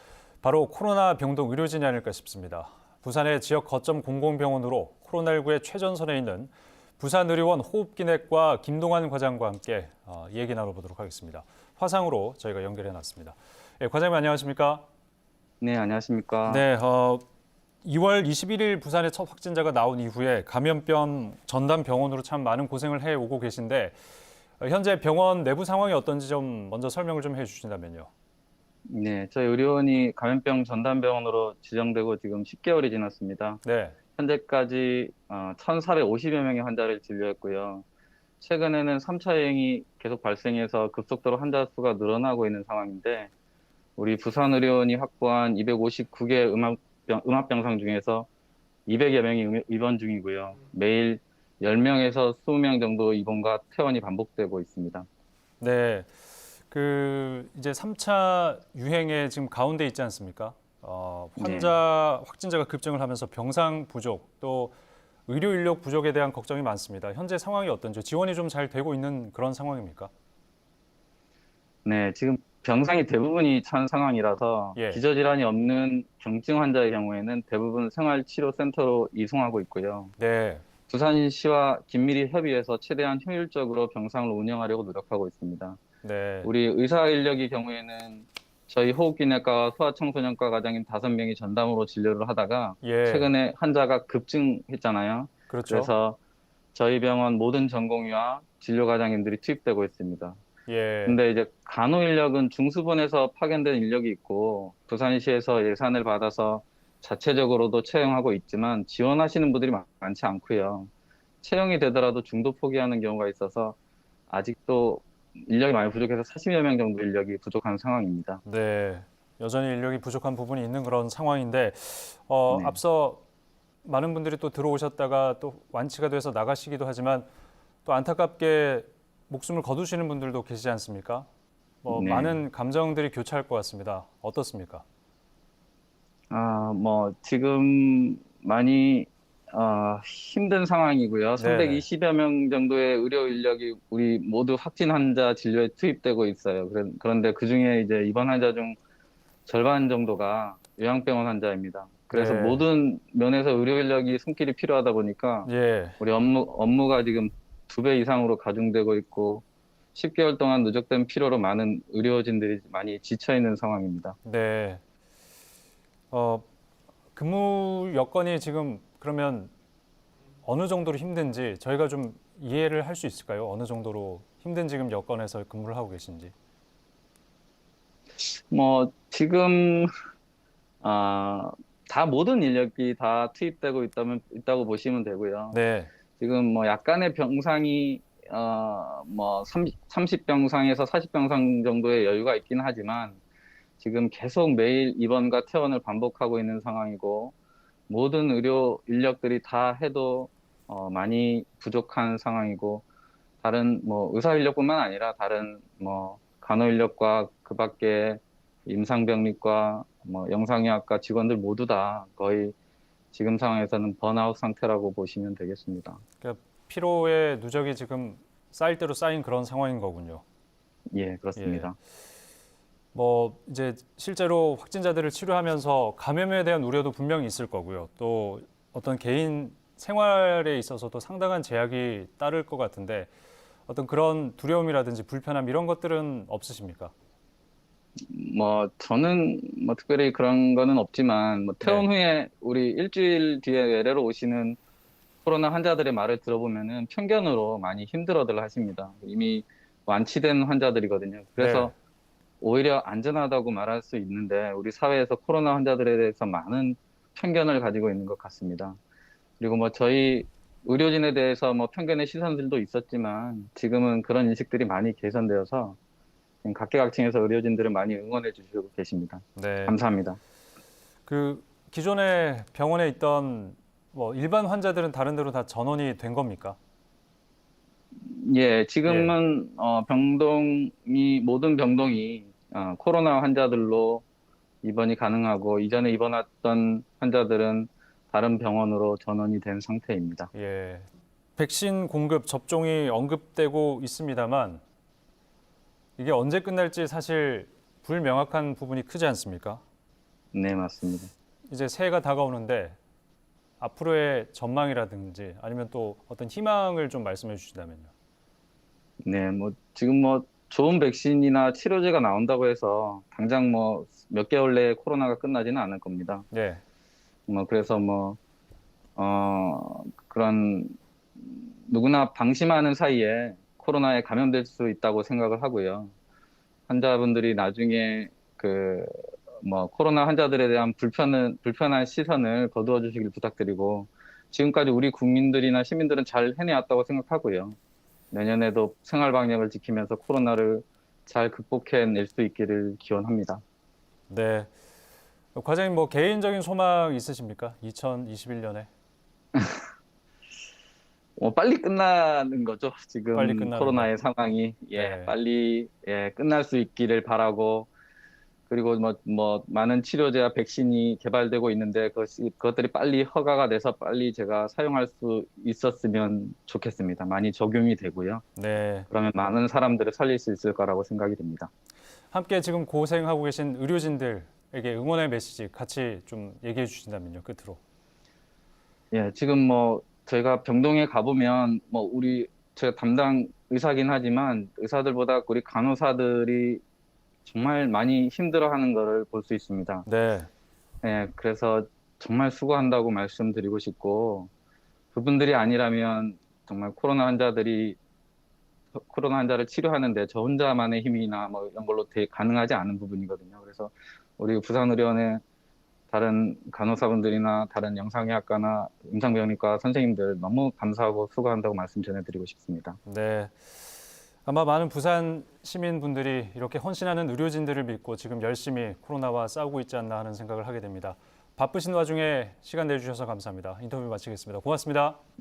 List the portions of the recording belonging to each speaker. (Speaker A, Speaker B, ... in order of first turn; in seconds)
Speaker A: 0.4-14.8, 16.5-17.2, 17.8-23.9, 24.6-28.1, 33.6-34.0, 55.6-56.1, 56.7-64.8, 65.3-70.1, 80.2-80.6, 86.0-86.5, 92.8-93.3, 95.5-95.9, 100.7-101.2, 118.4-123.2, 123.8-127.3, 127.8-131.3, 131.8-134.8, 141.4-141.8, 152.1-152.6, 155.4-156.0, 164.2-164.8, 166.1-166.4, 167.1-169.5, 170.4-176.3, 185.5-185.9, 216.2-220.2, 221.4-221.7, 222.9-233.1, 233.7-236.9, 251.4-251.7, 269.4-269.8, 271.1-276.6, 278.9-279.1, 290.3-294.6, 296.0-299.6, 301.5-302.8, 303.6-307.9, 316.3-316.6, 344.1-344.5, 345.3-348.7, 353.1-353.9, 354.8-355.1, 368.4-368.9, 372.1-377.6, 389.9-390.3, 412.9-413.4, 414.2-425.0
Speaker B: 15.6-16.6, 28.9-33.6, 34.2-37.8, 38.4-43.3, 44.0-48.3, 48.9-55.1, 61.4-61.8, 71.8-80.1, 80.9-85.8, 86.4-96.2, 96.7-100.4, 101.0-110.9, 111.4-113.8, 114.3-118.4, 122.5-122.8, 131.9-132.4, 136.3-148.8, 149.4-155.5, 156.0-159.4, 159.9-164.2, 178.2-179.9, 180.8-185.6, 186.2-193.2, 193.8-197.3, 197.9-202.8, 203.4-212.5, 213.1-216.0, 220.9-221.8, 238.1-244.6, 245.2-251.7, 252.4-258.8, 259.4-265.8, 266.4-270.2, 278.0-284.0, 284.6-290.3, 300.3-301.1, 309.0-316.2, 317.3-318.2, 318.9-325.9, 326.7-337.6, 338.1-343.4, 351.2-357.7, 358.5-368.2, 368.9-371.5, 378.9-386.6, 387.2-389.9, 390.8-394.3, 394.9-397.8, 398.7-405.2, 405.9-412.8